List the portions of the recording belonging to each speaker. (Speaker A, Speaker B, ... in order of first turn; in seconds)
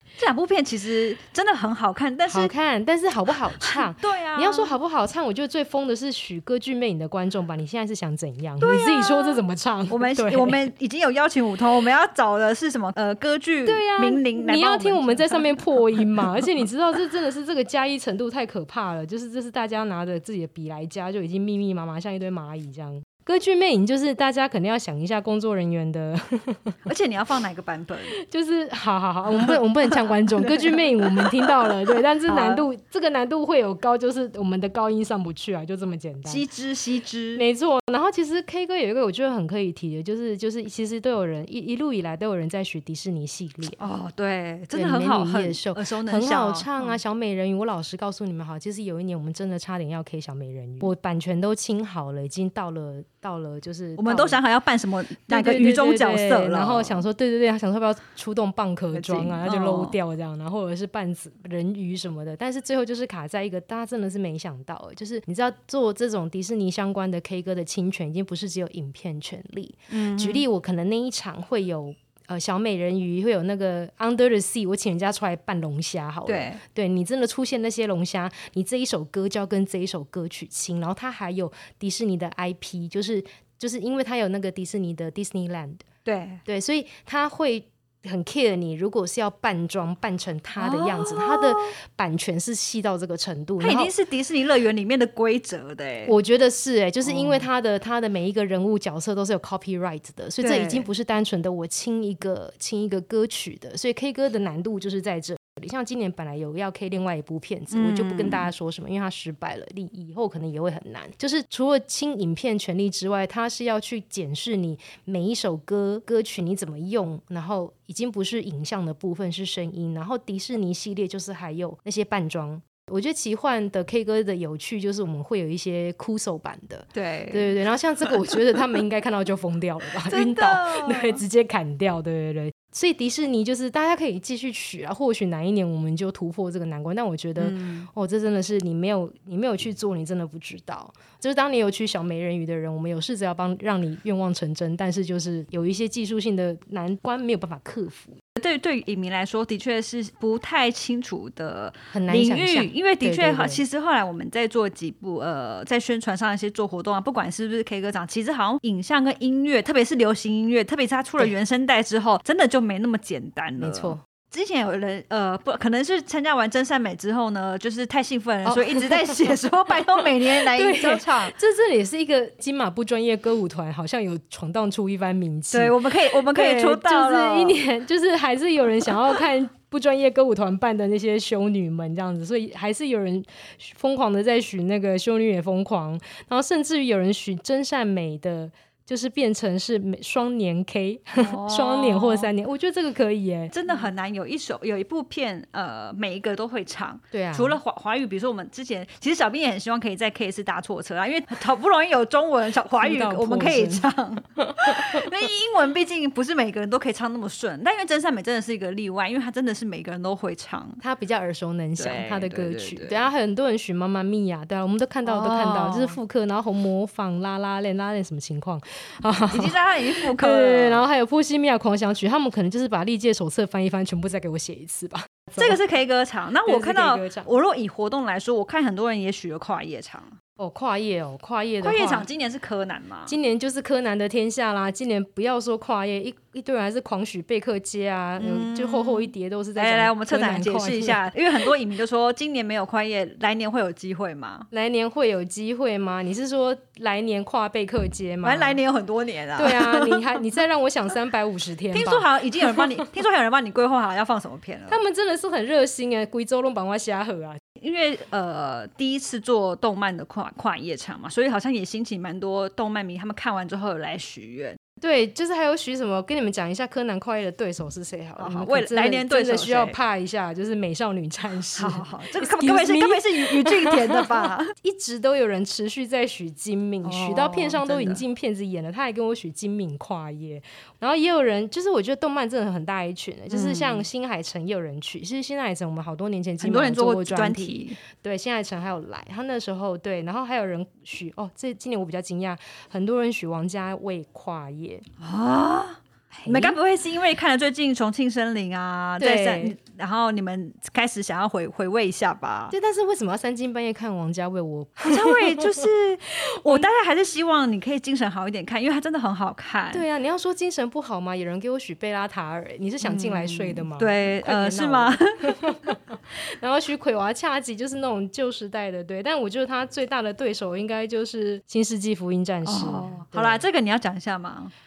Speaker A: 0.2-2.5, 3.6-4.7, 8.6-16.2, 26.9-28.2, 29.3-32.6, 36.3-37.4, 43.8-47.0, 54.0-57.0, 58.9-60.0, 69.9-70.4, 76.3-76.6, 86.0-86.4, 90.6-91.8, 93.6-96.2, 97.0-97.5, 100.4-100.9, 107.7-108.5, 127.0-128.1, 130.1-131.2, 137.4-137.9, 148.4-171.3, 175.5-177.6, 191.2-192.3, 193.5-210.8, 211.8-213.1, 215.1-216.0, 219.3-220.8, 225.4-230.2, 231.6-233.2, 238.2-244.5, 248.2-250.2, 251.7-254.8, 257.6-264.6, 268.2-269.8, 271.6-274.5, 276.8-278.0, 283.3-283.9, 286.4-287.8, 295.0-302.6, 304.8-309.8, 312.8-315.5, 322.4-324.5
Speaker B: 2.3-10.6, 13.7-26.8, 28.2-36.4, 37.4-43.8, 44.7-54.4, 55.3-85.8, 86.5-93.9, 96.1-148.2, 151.9-153.6, 163.6-164.0, 168.5-169.4, 169.9-193.8, 197.1-197.6, 202.8-205.1, 210.8-225.6, 226.5-227.3, 230.4-232.1, 233.1-241.0, 244.5-248.6, 249.4-252.8, 254.7-257.4, 264.8-294.9, 296.1-296.6, 299.0-299.6, 302.5-305.7, 306.2-306.7, 309.7-323.4